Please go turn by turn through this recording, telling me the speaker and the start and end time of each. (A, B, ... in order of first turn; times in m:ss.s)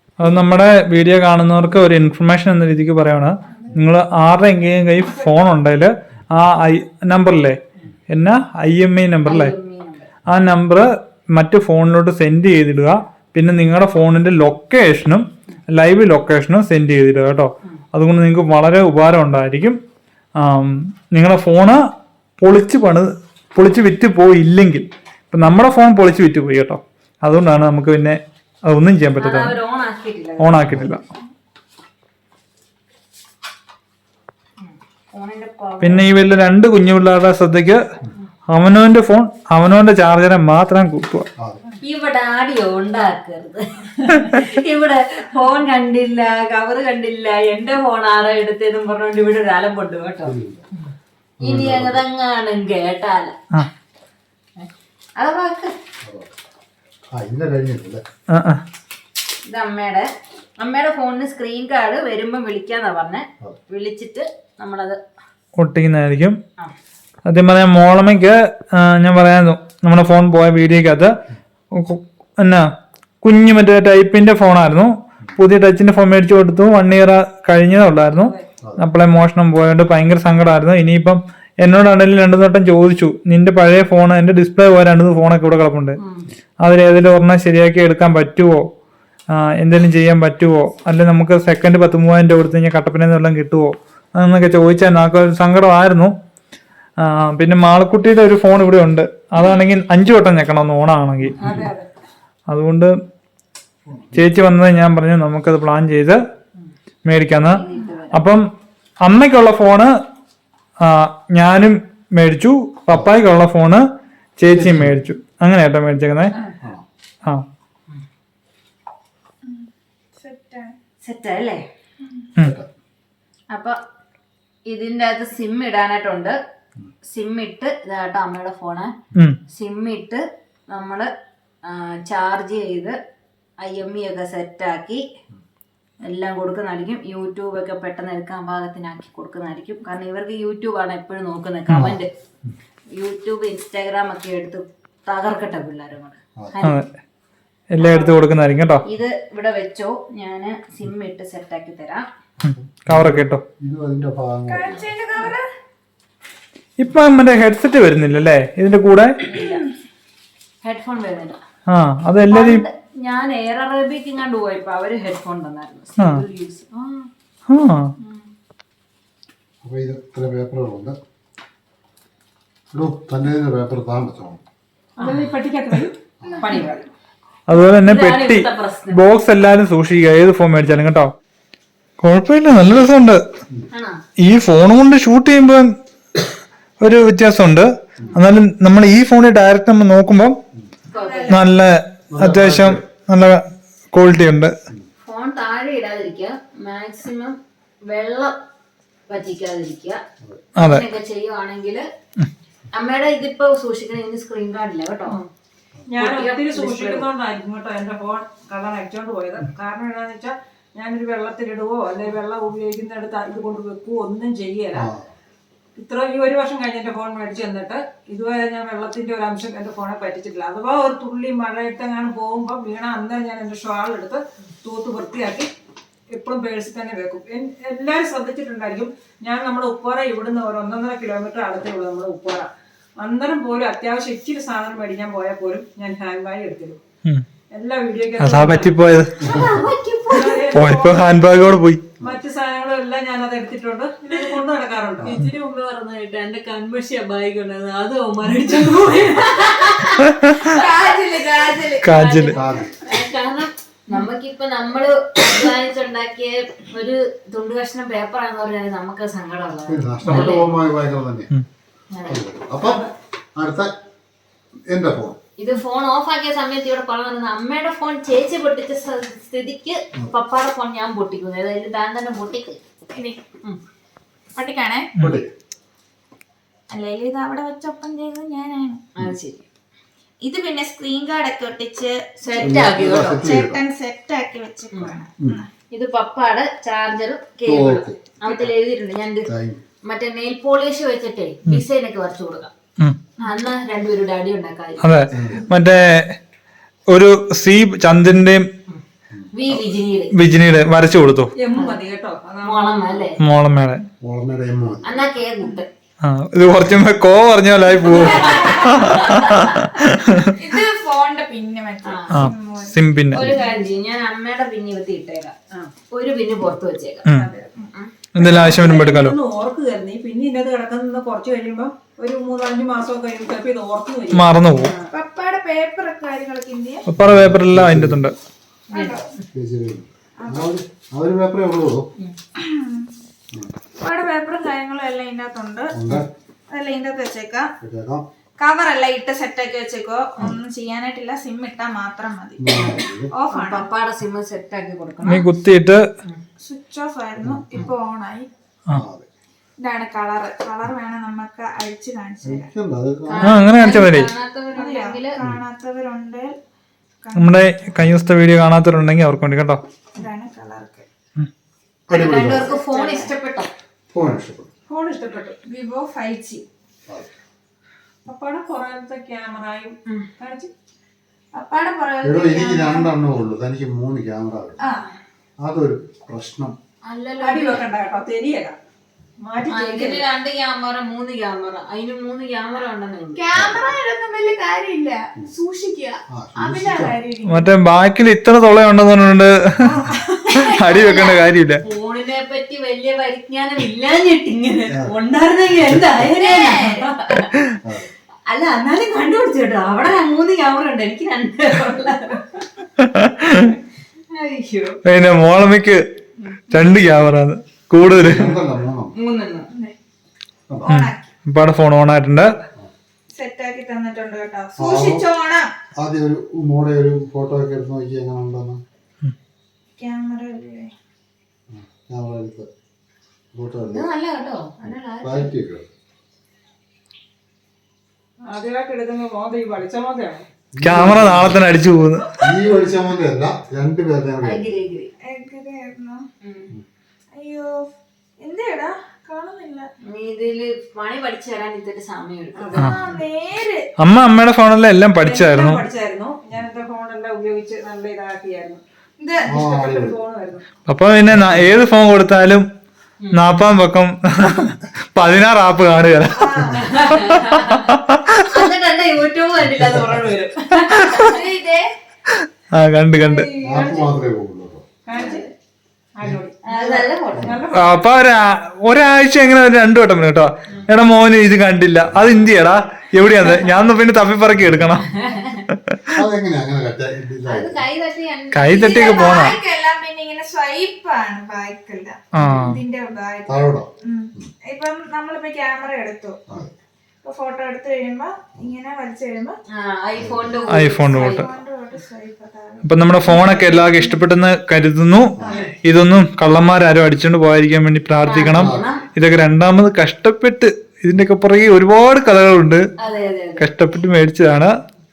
0:00.2-0:09.5 A
0:09.3-0:10.1 B
0:10.3-0:19.8 A
0:20.4-0:21.9 A
0:22.4-0:29.6 A
0:29.2-0:31.0 B
0:30.4-0:31.0 A
0:34.6-0:36.0 B
0:35.8-0:37.8 A
0:38.5-0:41.3 A
0:41.8-0:50.3 B
0:50.2-0:50.7 C
0:51.4-0:53.4 B
0:51.4-0:52.0 C
0:54.6-0:55.7 B
0:56.0-0:56.3 C
0:57.1-0:58.0 C
0:58.3-0:58.6 A
0:59.5-1:05.0 B
1:05.6-1:06.4 A
1:07.3-1:11.2 A
1:11.7-1:12.7 A
1:13.2-1:26.0 A
1:18.1-1:18.5 D
1:26.0-1:26.3 B
1:26.6-1:28.7 A
1:29.3-1:36.1 A
1:37.0-1:41.4 A
1:41.4-1:41.9 D
1:42.5-1:42.9 A
1:43.9-1:44.2 C
1:44.1-1:46.2 A
1:47.1-1:48.5 A
1:47.5-1:48.2 B
1:49.0-1:49.9 A
1:50.8-1:53.9 A
1:54.4-1:56.3 A
1:54.5-1:55.0 C
1:59.5-2:00.8 E
2:01.0-2:01.6 B
2:02.4-2:02.7 C
2:03.5-2:03.8 B
2:04.7-2:06.4 B
2:07.1-2:09.0 B
2:09.5-2:11.1 B
2:11.6-2:13.0 B
2:13.6-2:15.0 B
2:16.1-2:22.1 B
2:21.7-2:22.6 C
2:23.0-2:26.9 B
2:26.6-2:26.9 A
2:27.7-2:28.8 A
2:27.8-2:28.2 B
2:28.8-2:32.1 B
2:32.4-2:34.9 C
2:32.4-2:33.4 A
2:34.5-2:35.5 E
2:36.8-2:39.2 A
2:39.2-2:39.6 B
2:39.3-2:39.7 E
2:40.6-2:41.4 B
2:41.7-2:42.6 A
2:42.3-2:47.1 B
2:46.0-2:46.2 A
2:47.5-2:47.9 A
2:49.6-2:51.0 C
2:52.7-2:54.4 C
2:55.0-2:55.3 B
2:55.0-2:56.9 D
2:56.4-2:56.7 B
2:57.5-3:01.1 A
2:57.5-2:59.0 B
3:02.0-3:03.2 A
3:03.7-3:04.0 B
3:04.2-3:05.8 A
3:06.8-3:10.4 A
3:10.9-3:11.4 B
3:11.0-3:11.5 E
3:11.3-3:14.5 A
3:12.1-3:12.8 C
3:15.0-3:18.3 B
3:19.1-3:20.0 B
3:20.2-3:20.5 C
3:20.6-3:20.8 A
3:20.6-3:21.9 B
3:22.7-3:25.2 B
3:25.9-3:34.9 D
3:26.0-3:27.1 B
3:34.7-3:35.1 C
3:35.8-3:45.5 D
3:46.1-3:56.8 D
3:57.5-3:58.8 D
3:58.2-3:59.4 A
3:59.2-4:00.6 B
3:59.2-3:59.5 C
4:00.1-4:01.1 D
4:00.5-4:01.9 A
4:02.0-4:05.2 D
4:05.0-4:20.5 B
4:10.0-4:10.5 A
4:10.4-4:11.8 E
4:11.8-4:12.4 A
4:12.3-4:12.8 C
4:19.7-4:21.3 C
4:20.1-4:20.3 A
4:21.9-4:22.2 B
4:22.0-4:23.7 C
4:22.6-4:22.9 D
4:24.7-4:25.2 C
4:25.4-4:32.6 B
4:32.9-4:33.2 E
4:34.4-4:35.0 E
4:35.0-4:35.3 C
4:36.7-4:38.8 E
4:39.0-4:39.4 B
4:40.2-4:45.5 E
4:42.2-4:43.4 B
4:42.4-4:43.6 C
4:44.7-4:45.0 B
4:45.7-4:49.3 B
4:47.4-4:48.4 C
4:49.3-4:49.6 C
4:49.8-4:52.5 B
4:53.2-4:54.8 B
4:54.8-4:56.2 A
4:55.1-4:55.5 C
4:56.9-4:58.5 A
4:58.7-5:00.1 B
5:00.1-5:01.3 A
5:01.4-5:03.1 D
5:01.5-5:01.8 B
5:02.4-5:03.2 B
5:03.2-5:03.8 A
5:04.0-5:05.1 C
5:04.8-5:05.7 B
5:06.0-5:10.4 A
5:07.8-5:09.6 B
5:10.2-5:12.8 E
5:11.8-5:12.3 B
5:12.1-5:13.3 A
5:13.1-5:15.4 B
5:13.1-5:13.4 C
5:15.9-5:17.1 B
5:17.1-5:17.3 A
5:17.3-5:17.7 E
5:18.2-5:19.2 A
5:18.2-5:24.9 D
5:24.1-5:24.7 A
5:24.9-5:26.8 E
5:26.9-5:28.2 A
5:27.0-5:28.0 C
5:28.7-5:29.1 E
5:29.3-5:31.9 C
5:30.2-5:30.5 E
5:32.4-5:32.9 E
5:33.8-5:35.8 E
5:35.7-5:36.1 C
5:36.5-5:37.5 E
5:37.6-5:38.1 C
5:38.4-5:43.7 E
5:42.4-5:43.1 C
5:43.3-5:45.3 B
5:45.0-5:45.9 A
5:46.4-5:48.3 E
5:47.2-5:47.7 C
5:48.7-5:49.1 C
5:49.6-5:52.5 E
5:52.2-5:53.4 C
5:53.0-5:55.2 B
5:53.2-5:54.1 A
5:54.5-5:56.4 E
5:57.0-5:57.5 E
5:57.1-5:59.6 A
6:00.0-6:00.9 E
6:01.9-6:02.6 C
6:01.9-6:03.5 B
6:02.4-6:03.1 E
6:03.9-6:04.5 C
6:04.7-6:05.4 D
6:05.5-6:06.4 E
6:08.0-6:10.5 D
6:11.4-6:12.9 E
6:12.0-6:14.6 C
6:14.6-6:14.9 E
6:15.4-6:16.6 C
6:16.8-6:17.6 B
6:17.2-6:18.6 D
6:19.2-6:20.1 D
6:19.5-6:23.2 B
6:23.2-6:27.5 E
6:23.3-6:23.7 C
6:26.1-6:27.0 C
6:27.2-6:29.7 A
6:29.6-6:31.3 E
6:30.3-6:31.6 A
6:31.6-6:37.3 B
6:34.7-6:35.0 C
6:35.6-6:36.0 C
6:36.0-6:36.9 E
6:37.6-6:37.9 C
6:38.3-6:42.4 B
6:42.8-6:43.6 A
6:44.1-6:44.8 B
6:44.8-6:45.8 A
6:46.5-6:48.4 A
6:47.8-6:49.0 C
6:49.0-6:49.5 B
6:49.5-6:49.8 E
6:50.5-6:50.7 C
6:50.6-6:51.1 E
6:50.7-6:52.3 A
6:53.1-6:55.5 E
6:54.6-6:55.1 C
6:55.8-6:58.6 C
6:59.8-7:00.7 E
7:01.5-7:02.5 C
7:03.3-7:03.9 C
7:03.7-7:05.3 B
7:04.6-7:05.7 C
7:08.3-7:10.2 D
7:10.5-7:11.4 C
7:10.6-7:12.2 A
7:12.2-7:14.5 C
7:14.2-7:14.9 B
7:15.0-7:16.0 E
7:16.2-7:16.5 B
7:17.1-7:17.5 E
7:18.2-7:19.7 E
7:19.9-7:22.7 B
7:22.4-7:22.8 D
7:22.5-7:23.7 E
7:23.8-7:25.6 A
7:25.0-7:28.6 D
7:29.0-7:29.4 E
7:29.2-7:30.4 D
7:29.3-7:30.0 C
7:30.7-7:32.5 A
7:31.1-7:31.5 C
7:33.0-7:33.3 B
7:33.1-7:38.4 A
7:36.2-7:37.0 E
7:36.4-7:36.7 C
7:36.6-7:41.2 B
7:39.4-7:40.1 C
7:40.6-7:41.1 A
7:41.0-7:41.7 E
7:42.5-7:43.3 A
7:43.0-7:43.9 B
7:43.4-7:44.7 C
7:44.9-7:45.3 D
7:44.9-7:45.3 B
7:46.0-7:47.9 D
7:46.5-7:47.4 B
7:47.1-7:47.4 C
7:47.5-7:54.8 A
7:54.4-7:54.8 C
7:54.8-7:55.4 B
7:55.5-7:56.0 A
7:55.9-7:57.6 C
7:57.3-7:59.3 B
7:58.3-7:59.4 A
7:58.5-8:06.2 E
8:02.2-8:02.6 A
8:03.3-8:04.3 C
8:07.0-8:09.4 E
8:09.5-8:11.4 B
8:10.0-8:10.4 C
8:10.5-8:11.3 A
8:10.8-8:14.0 E
8:12.6-8:22.6 A
8:15.2-8:15.5 C
8:15.2-8:15.5 D
8:18.0-8:18.8 B
8:18.3-8:18.8 C
8:22.8-8:23.5 B
8:23.4-8:24.6 A